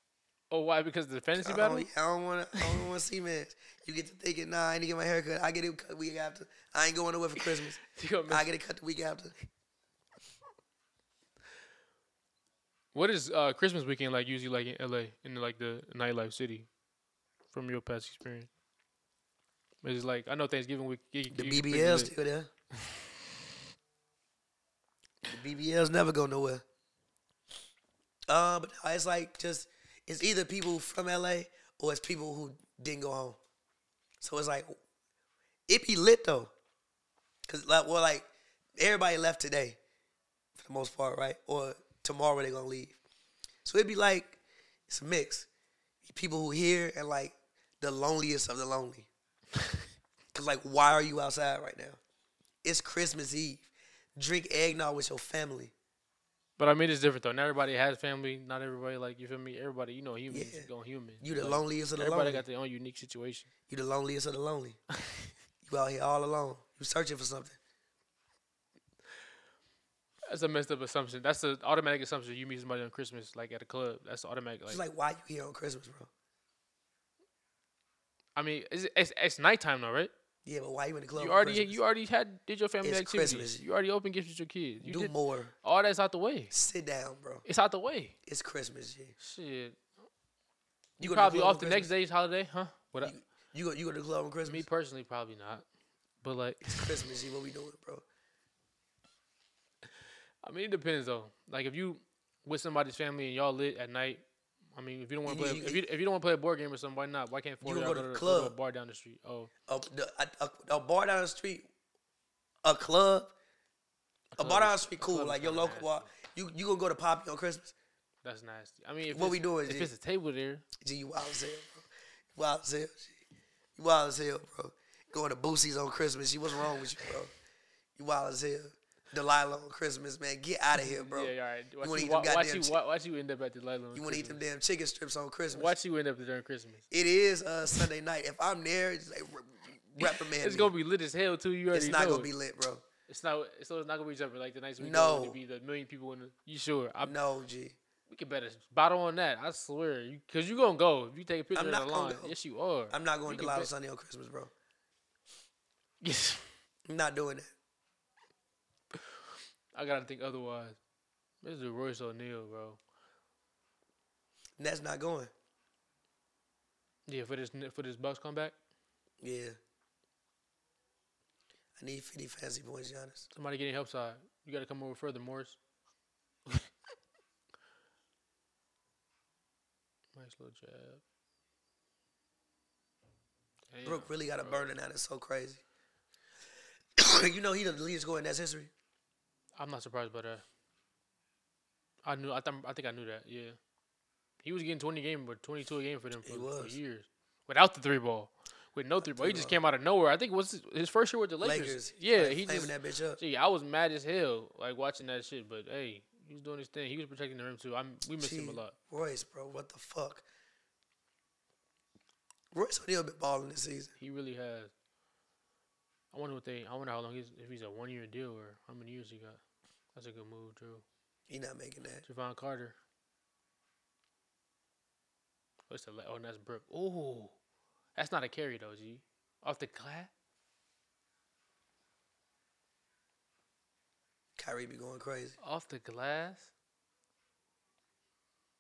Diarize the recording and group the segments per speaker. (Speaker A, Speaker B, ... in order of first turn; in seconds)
Speaker A: 0.5-1.9, 7.4-8.5, 12.9-16.7, 17.5-18.5, 19.8-22.1, 56.6-63.5, 70.3-74.8, 78.4-80.1, 81.2-86.5, 87.5-88.2, 89.2-89.8, 91.0-93.1, 94.4-95.7, 96.2-96.9, 100.4-104.2, 104.8-109.5, 114.3-116.1, 118.2-120.7, 130.8-134.4, 135.5-136.8, 140.0-142.3, 143.1-147.2, 148.1-153.7, 156.0-156.4, 159.8-160.8, 161.4-162.8, 167.1-168.6, 173.3-175.6, 180.2-181.0, 183.7-184.7, 189.6-190.4, 192.1-193.6, 194.4-208.7, 214.0-214.7, 216.1-219.4, 219.9-220.8, 222.0-222.8, 225.7-227.3, 228.0-230.1, 235.4-236.5
Speaker B: 1.4-9.3, 21.3-22.5, 25.3-26.6, 28.3-33.4, 34.2-34.8, 35.7-36.5, 37.5-39.8, 40.6-43.0, 43.6-44.4, 44.9-45.5, 46.0-49.1, 50.3-52.0, 52.6-55.7, 60.3-60.7, 61.2-62.4, 63.7-64.8, 65.7-67.6, 74.7-76.1, 80.5-81.8, 82.8-83.6, 84.8-85.5, 86.5-87.5, 88.3-89.1, 91.0-91.9, 93.0-94.6, 96.6-98.0, 105.3-105.8, 107.6-108.5, 109.7-111.7, 112.6-113.3, 114.4-117.7, 119.1-119.9, 120.8-121.8, 122.4-123.2, 123.8-127.3, 128.0-132.8, 133.9-135.7, 136.9-140.7, 141.7-142.8, 144.8-145.4, 147.0-147.8, 151.6-152.4, 152.9-154.5, 156.9-157.5, 164.6-165.3, 169.2-169.6, 171.8-173.3, 183.8-185.6, 187.0-188.7, 196.2-196.8, 199.0-199.6, 201.4-203.2, 208.2-210.2, 212.5-213.9, 221.3-222.0, 234.4-235.4